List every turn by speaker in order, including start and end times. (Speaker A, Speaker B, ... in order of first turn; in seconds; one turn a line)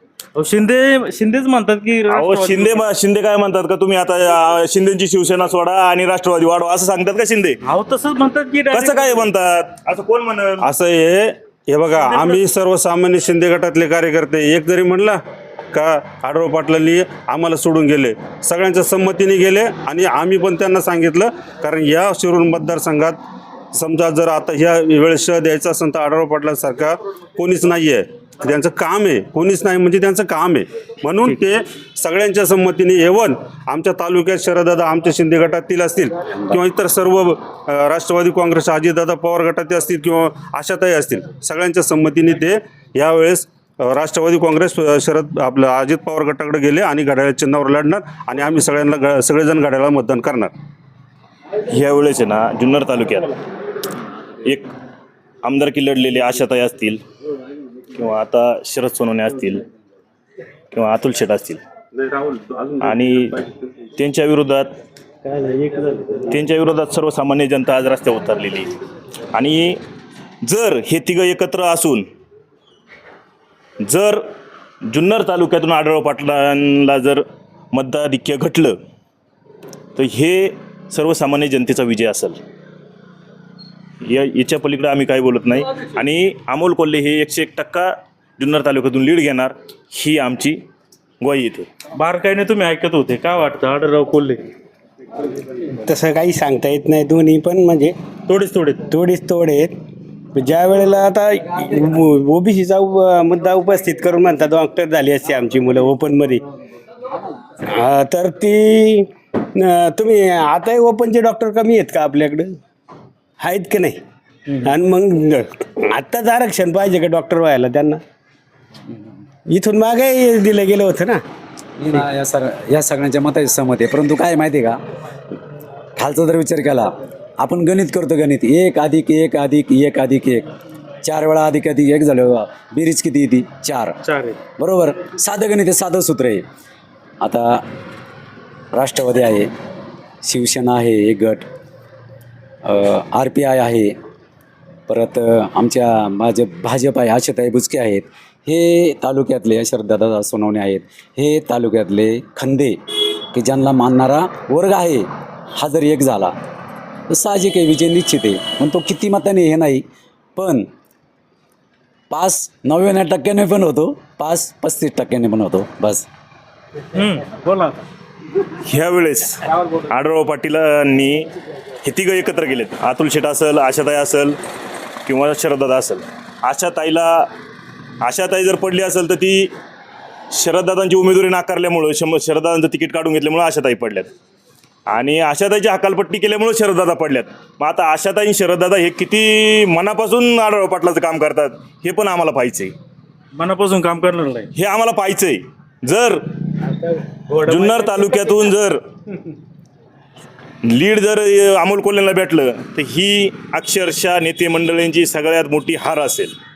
Speaker A: 0.3-2.8
Speaker B: 2.1-7.6
Speaker A: 7.6-9.2
Speaker B: 8.7-10.7
Speaker C: 10.6-15.2
Speaker A: 12.0-12.4
Speaker C: 15.7-23.2
Speaker C: 23.7-50.5
Speaker B: 51.7-53.3
Speaker B: 54.4-54.7
Speaker B: 55.4-57.0
Speaker B: 57.9-59.6
Speaker B: 60.7-61.6
Speaker C: 61.9-63.6
Speaker B: 62.8-63.4
Speaker B: 64.0-64.8
Speaker B: 66.2-68.7
Speaker B: 69.3-69.8
Speaker B: 70.4-72.1
Speaker B: 73.8-74.2
Speaker B: 74.8-78.8
Speaker B: 79.9-82.4
Speaker B: 84.0-90.6
Speaker B: 91.2-91.7
Speaker A: 91.9-94.4
Speaker D: 95.9-97.9
Speaker A: 98.3-98.9
Speaker D: 98.9-99.7
Speaker D: 100.3-106.4
Speaker D: 107.8-109.1
Speaker D: 109.7-112.5
Speaker D: 113.5-114.0
Speaker D: 114.7-118.0
Speaker D: 119.5-121.2
Speaker E: 121.8-124.8
Speaker E: 126.0-130.5
Speaker E: 131.0-134.0
Speaker A: 134.0-134.4
Speaker E: 134.6-136.4
Speaker E: 137.2-137.6
Speaker E: 138.7-139.5
Speaker E: 140.2-141.5
Speaker E: 142.6-143.9
Speaker E: 144.9-156.3
Speaker E: 157.1-159.8
Speaker E: 160.3-160.7
Speaker E: 162.1-166.1
Speaker A: 166.9-167.8
Speaker B: 168.6-171.3
Speaker B: 171.8-174.4
Speaker B: 175.0-177.3
Speaker B: 178.0-179.5
Speaker B: 180.3-184.1
Speaker B: 184.9-192.7
Speaker A: 193.3-194.5
Speaker B: 194.5-196.2
Speaker A: 197.3-198.2
Speaker B: 197.4-198.8
Speaker B: 200.6-206.3